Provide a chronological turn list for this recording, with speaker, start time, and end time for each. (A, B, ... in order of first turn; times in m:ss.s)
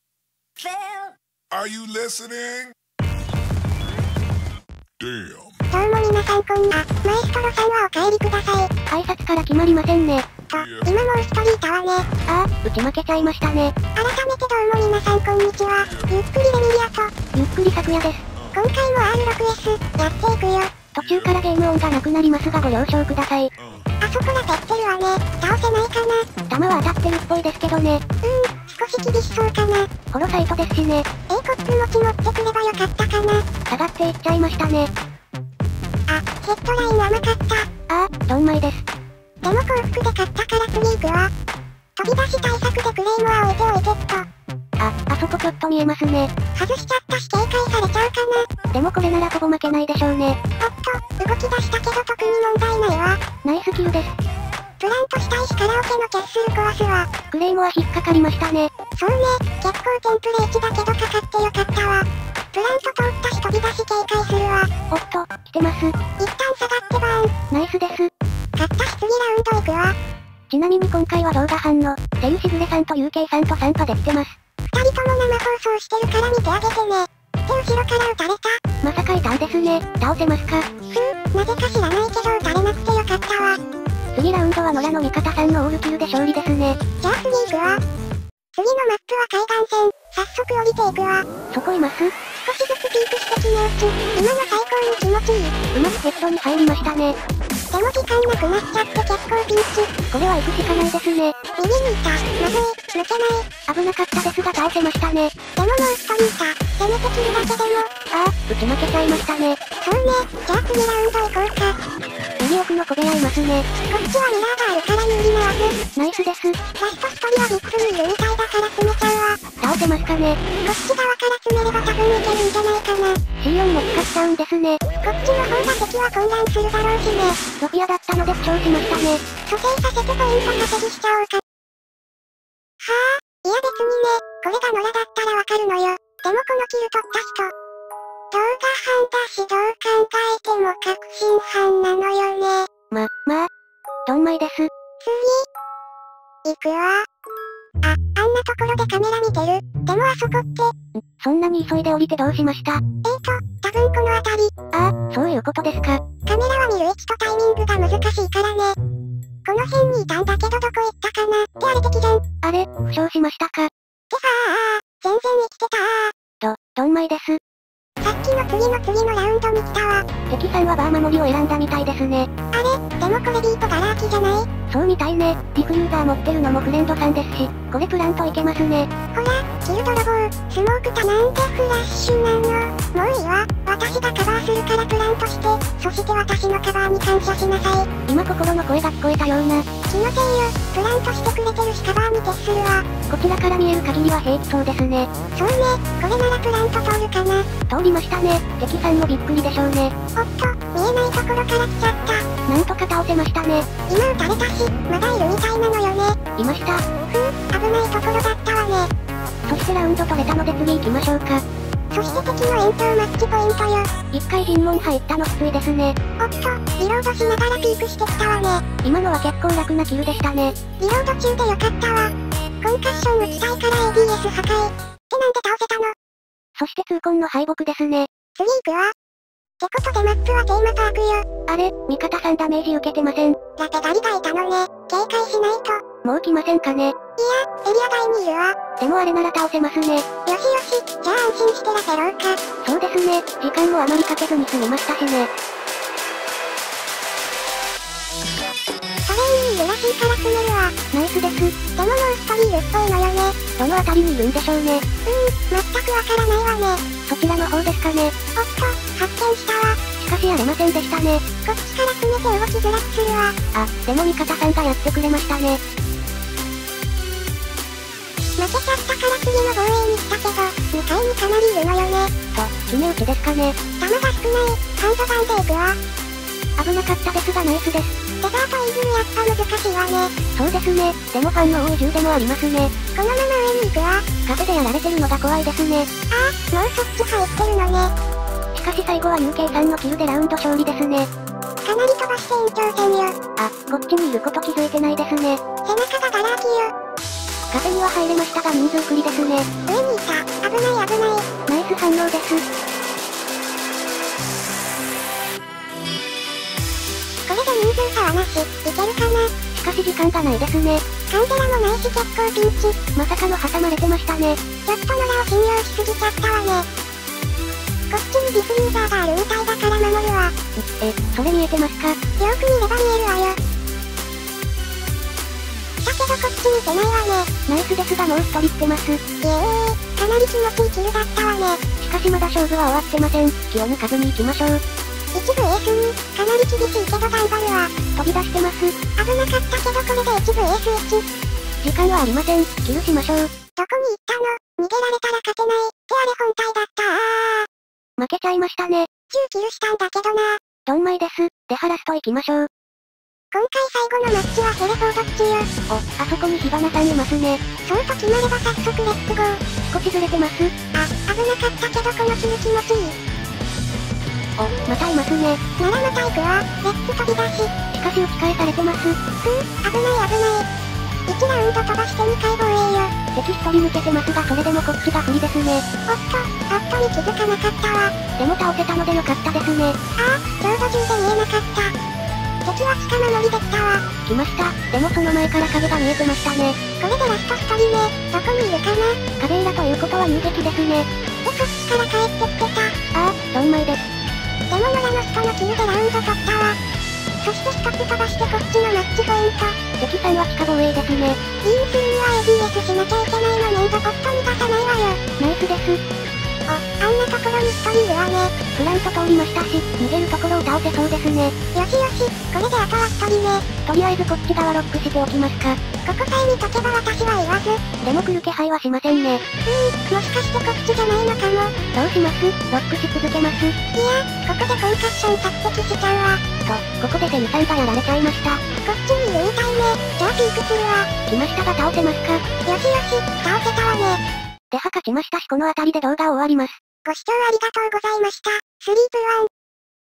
0:00.6-0:02.8 A
0:05.0-0:05.6 A
0:05.7-0:08.7 B
0:08.9-0:10.3 C
0:10.5-0:10.9 A
0:10.5-0:12.1 B
0:12.2-0:13.7 C
0:13.9-0:17.1 B
0:15.8-0:16.1 A
0:17.3-0:18.2 C
0:18.5-0:20.7 B
0:20.9-0:23.5 C
0:21.0-0:21.2 A
0:23.6-0:23.9 A
0:24.0-0:26.3 B
0:26.5-0:28.0 C
0:28.2-0:29.9 B
0:30.1-0:31.1 C
0:31.3-0:33.4 B
0:33.7-0:34.9 C
0:36.1-0:37.7 B
0:37.9-0:38.8 C
0:39.4-0:41.3 B
0:42.0-0:44.3 B
0:44.8-0:46.3 C
0:46.5-0:48.5 B
0:48.7-0:50.4 C
0:50.6-0:53.2 B
0:53.4-0:54.1 C
0:54.8-0:57.1 B
0:57.3-0:58.7 C
0:59.0-1:04.7 B
1:04.9-1:06.0 C
1:06.2-1:07.3 B
1:07.5-1:08.1 C
1:08.6-1:10.0 B
1:10.5-1:14.3 C
1:14.7-1:18.6 B
1:18.8-1:20.7 C
1:20.9-1:23.6 B
1:24.1-1:26.8 C
1:27.0-1:27.8 B
1:28.5-1:31.2 B
1:31.5-1:32.1 C
1:32.3-1:35.6 B
1:35.7-1:37.2 C
1:37.7-1:39.9 B
1:40.1-1:41.4 C
1:41.6-1:43.5 B
1:43.7-1:45.3 C
1:45.5-1:47.9 B
1:48.1-1:49.6 C
1:49.8-1:51.8 B
1:52.4-1:53.7 C
1:53.8-1:55.8 B
1:55.9-1:56.6 C
1:56.7-1:59.4 B
1:59.6-2:00.4 C
2:00.6-2:03.2 B
2:03.4-2:04.8 C
2:05.0-2:07.4 B
2:07.6-2:09.2 C
2:09.4-2:11.4 B
2:12.8-2:17.5 B
2:18.3-2:22.7 B
2:22.9-2:23.5 C
2:24.0-2:24.7 C
2:25.0-2:25.4 B
2:26.4-2:27.0 B
2:27.8-2:30.7 B
2:30.9-2:32.8 C
2:33.0-2:34.5 B
2:34.7-2:36.0 C
2:36.2-2:38.8 B
2:39.4-2:42.2 B
2:42.4-2:43.7 C
2:44.1-2:46.1 B
2:46.4-2:47.4 C
2:48.0-2:50.0 B
2:50.3-2:52.3 C
2:52.5-2:54.5 B
2:54.7-2:58.9 C
2:59.1-3:07.9 B
3:08.0-3:09.6 C
3:09.9-3:12.9 B
3:13.1-3:15.1 C
3:15.3-3:17.5 B
3:17.7-3:19.9 C
3:20.1-3:22.3 B
3:22.5-3:23.7 C
3:23.9-3:26.2 B
3:26.4-3:26.9 C
3:27.4-3:28.9 B
3:29.4-3:31.4 C
3:31.9-3:33.9 B
3:34.1-3:36.0 C
3:36.2-3:38.6 B
3:38.8-3:40.6 C
3:40.8-3:45.9 B
3:46.6-3:48.1 C
3:48.3-3:48.9 B
3:49.6-3:51.2 B
3:51.5-3:53.4 C
3:53.6-3:55.8 B
3:56.0-3:56.9 C
3:57.2-3:58.6 B
3:58.8-4:00.0 C
4:00.2-4:02.4 B
4:02.6-4:05.3 C
4:09.0-4:10.7 B
4:10.9-4:11.5 C
4:11.8-4:13.4 B
4:13.6-4:14.8 C
4:15.0-4:16.8 B
4:17.0-4:18.1 C
4:18.3-4:19.8 B
4:20.0-4:21.2 C
4:21.4-4:23.3 B
4:23.5-4:25.6 C
4:28.4-4:32.1 B
4:32.3-4:33.6 C
4:33.8-4:35.8 B
4:36.6-4:37.9 C
4:38.2-4:40.1 B
4:40.3-4:42.7 C
4:42.9-4:44.1 B
4:44.2-4:45.9 C
4:46.1-4:47.9 B
4:48.5-4:51.1 C
4:51.6-4:53.1 B
4:53.4-4:55.4 C
4:55.6-4:56.7 B
4:57.5-4:59.5 C
4:59.7-5:01.3 B
5:01.5-5:02.4 C
5:07.3-5:09.3 B
5:09.5-5:10.8 C
5:11.1-5:12.8 B
5:12.9-5:14.4 C
5:14.6-5:16.6 B
5:17.9-5:20.3 B
5:20.6-5:22.0 C
5:22.2-5:23.4 B
5:25.8-5:27.3 B
5:27.5-5:29.0 C
5:29.2-5:31.6 B
5:31.8-5:34.6 C
5:35.1-5:37.7 B
5:37.9-5:38.7 C
5:39.0-5:41.0 B
5:41.6-5:43.3 C
5:43.5-5:47.5 B
5:48.0-5:48.9 C
5:49.1-5:50.4 B
5:50.6-5:52.5 C
5:53.3-5:55.5 B
5:55.7-5:57.4 C
5:57.6-5:59.4 B
5:59.7-6:00.5 C
6:00.7-6:03.0 B
6:04.4-6:05.4 C
6:05.6-6:07.5 B
6:07.7-6:09.0 C
6:09.2-6:10.5 B
6:11.1-6:12.9 B
6:13.1-6:15.6 C
6:15.9-6:17.9 B
6:18.2-6:19.8 C
6:20.0-6:21.7 B
6:22.4-6:23.8 B
6:24.0-6:26.6 C
6:26.8-6:29.0 B
6:29.2-6:30.9 C
6:31.2-6:32.8 B
6:32.9-6:33.8 C
6:34.5-6:36.6 B
6:37.2-6:39.6 B
6:39.8-6:41.2 C
6:41.4-6:45.0 B
6:45.2-6:45.8 C
6:46.5-6:48.3 B
6:48.5-6:51.3 C
6:51.5-6:53.4 B
6:53.6-6:55.6 C
6:55.8-6:57.6 B
6:57.8-6:59.2 C
6:59.4-7:01.5 B
7:01.7-7:03.5 C
7:03.8-7:06.2 B
7:06.4-7:08.4 C
7:08.6-7:10.9 B
7:11.1-7:12.2 C
7:12.4-7:14.0 B
7:14.5-7:16.6 C
7:16.8-7:19.3 B